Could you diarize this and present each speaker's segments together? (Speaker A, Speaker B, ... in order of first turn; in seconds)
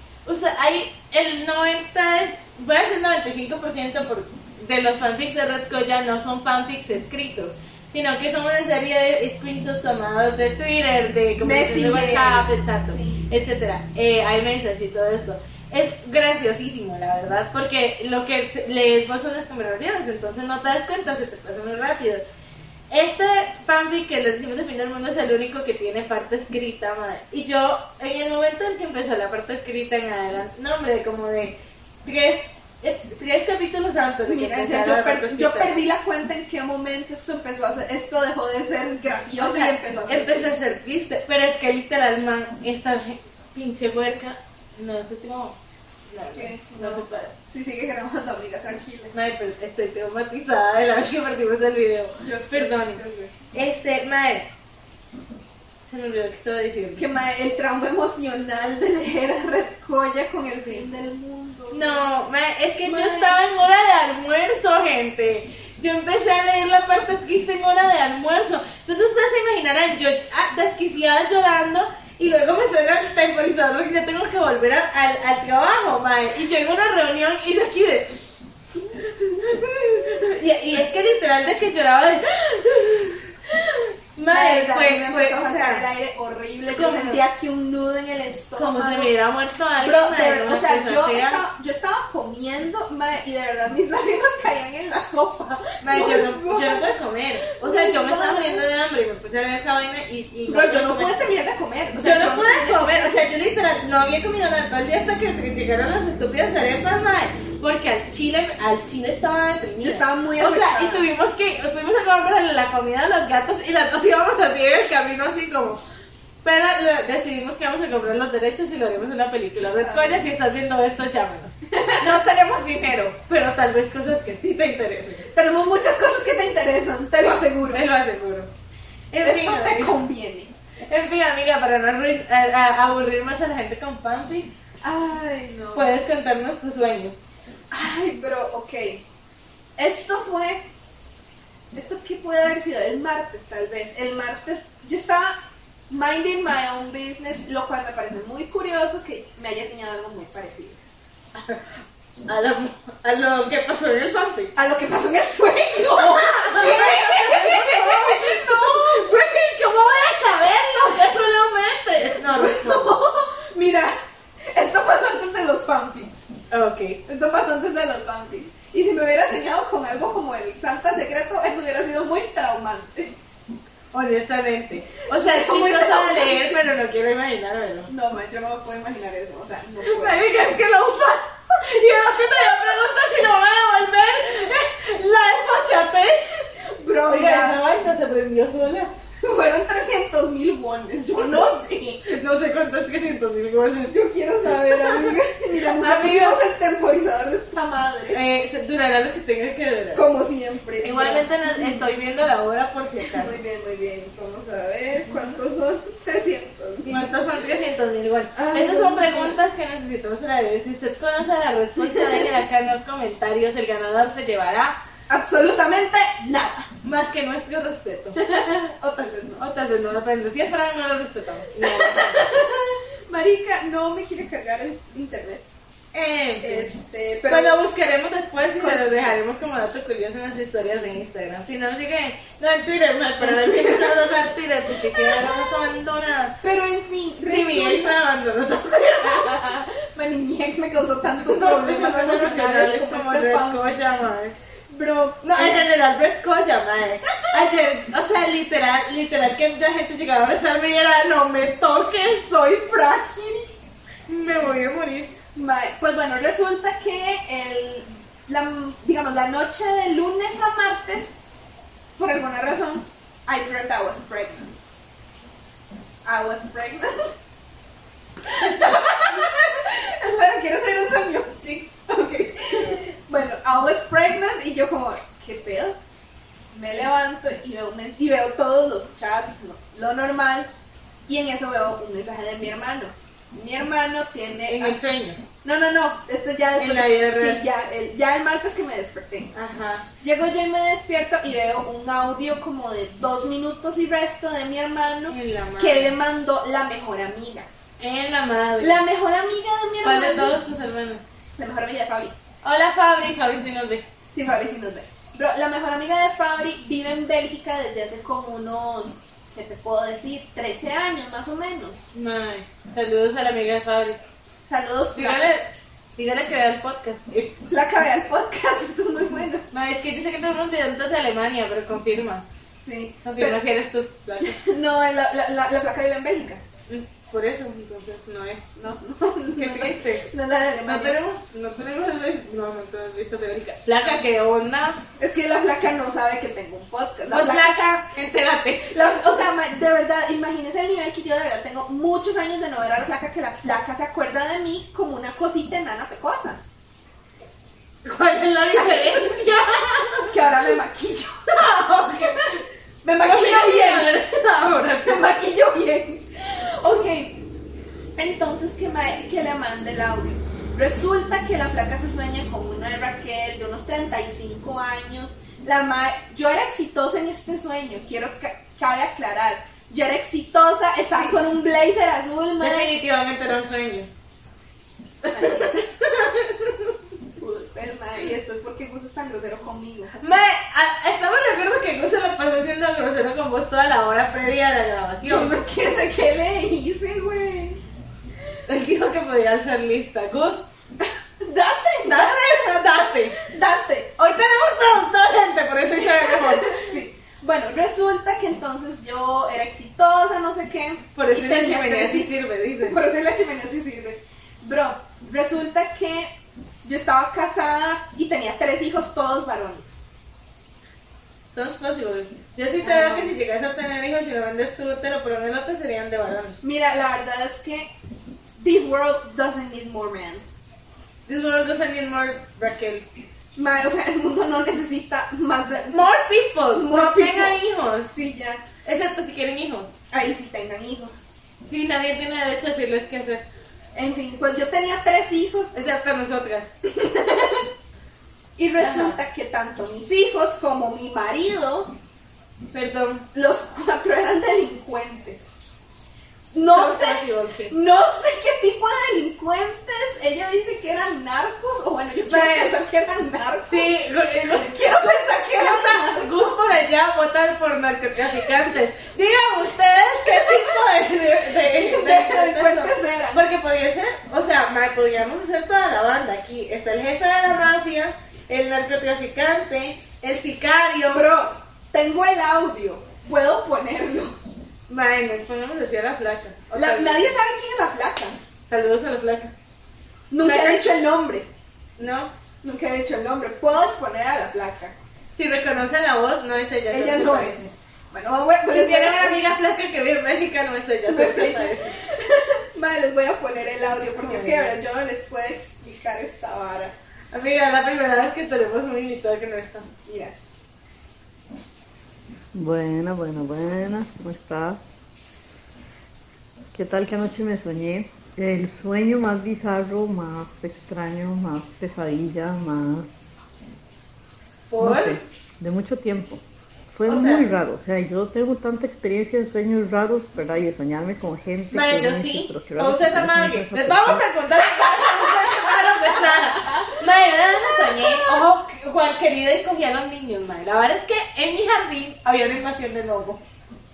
Speaker A: 0.2-22.2, 22.9-35.8, 39.4-45.6, 46.1-47.3, 49.1-53.0, 53.5-54.5, 55.8-57.0, 61.7-78.2, 79.3-85.8, 86.7-87.2, 88.5-91.4, 95.8-101.2, 102.0-115.8, 116.4-125.3, 127.7-128.5, 129.1-129.9, 130.9-134.5, 135.7-137.2, 151.3-154.5, 155.9-162.9, 166.5-167.0, 173.9-177.9, 179.8-186.3, 187.1-188.9, 192.0-193.9, 194.6-195.1, 195.8-196.4, 198.1-200.0, 200.8-203.3, 205.1-205.4, 206.9-214.8, 216.8-218.2, 219.4-222.3, 225.9-226.7, 227.3-236.3, 237.2-239.4, 241.2-244.3, 245.2-252.3, 254.1-255.1, 284.5-285.2, 286.6-287.4, 289.3-289.8, 295.1-295.9, 297.8-298.8, 299.8-301.0, 302.4-303.8, 311.9-314.0, 314.9-317.4, 319.5-322.2, 323.0-324.4, 326.7-328.4, 329.4-330.1, 330.7-334.8, 337.1-338.7, 347.8-350.1, 351.3-352.4, 353.0-355.0, 372.4-373.9, 375.0-376.6, 380.0-385.4, 388.5-390.4, 391.9-393.2, 394.0-396.7, 400.9-402.8, 411.3-416.4, 421.1-422.9, 425.7-427.9, 428.6-429.7, 431.5-433.2, 435.5-436.5, 438.6-439.0, 442.5-443.0, 446.5-447.5, 452.1-452.5, 453.5-454.7, 455.4-471.1, 474.7-477.1, 478.5-479.3, 480.2-480.6, 481.8-482.1, 485.1-487.5, 488.5-491.8, 494.0-494.6, 497.1-499.7, 514.5-515.0, 516.9-517.3, 521.5-533.2
Speaker B: 11.4-13.2, 34.2-40.5, 46.3-49.1, 52.2-53.3, 57.0-62.1, 62.8-63.4, 84.3-89.1, 89.8-96.8, 97.6-98.7, 100.5-103.2, 109.8-111.0, 119.8-120.3, 121.7-122.2, 125.3-127.8, 129.2-130.5, 134.8-135.9, 137.7-139.0, 139.8-140.7, 141.7-145.3, 145.9-150.8, 154.5-159.2, 162.2-164.0, 164.5-166.3, 167.1-173.2, 175.1-176.5, 177.9-180.2, 186.6-187.6, 189.2-192.1, 193.9-198.2, 199.9-201.8, 203.1-207.1, 208.3-209.4, 211.8-212.3, 215.1-216.7, 218.2-219.4, 221.6-225.4, 226.4-227.6, 228.6-229.2, 233.2-234.1, 234.9-235.3, 236.4-238.0, 239.0-243.6, 244.7-245.7, 247.1-247.4, 252.2-253.5, 255.3-261.1, 262.0-264.6, 266.0-267.1, 268.2-275.8, 276.5-280.5, 281.1-284.8, 285.4-289.3, 290.0-297.5, 298.6-300.4, 301.4-302.1, 304.1-311.8, 314.5-315.3, 317.5-319.4, 322.6-323.4, 324.2-326.4, 328.5-331.0, 335.0-337.7, 338.6-346.4, 348.5-349.2, 349.9-351.9, 352.8-353.9, 354.8-357.2, 357.9-372.7, 375.1-375.7, 377.2-380.0, 385.0-387.6, 390.8-394.0, 395.8-406.1, 406.6-409.8, 412.6-413.1, 416.4-417.7, 418.4-420.2, 423.4-425.8, 426.5-427.4, 427.9-428.4, 429.9-431.1, 433.7-435.6, 436.6-437.5, 438.4-441.7, 443.1-445.3, 446.3-453.7, 454.2-456.3, 460.1-460.4, 461.4-463.2, 470.9-474.1, 476.5-478.2, 480.1-481.3, 482.4-484.7, 486.7-489.2, 490.9-496.7, 499.9-500.1, 524.6-526.7, 527.5-528.2
Speaker C: 502.3-504.7, 506.5-512.9, 514.6-524.0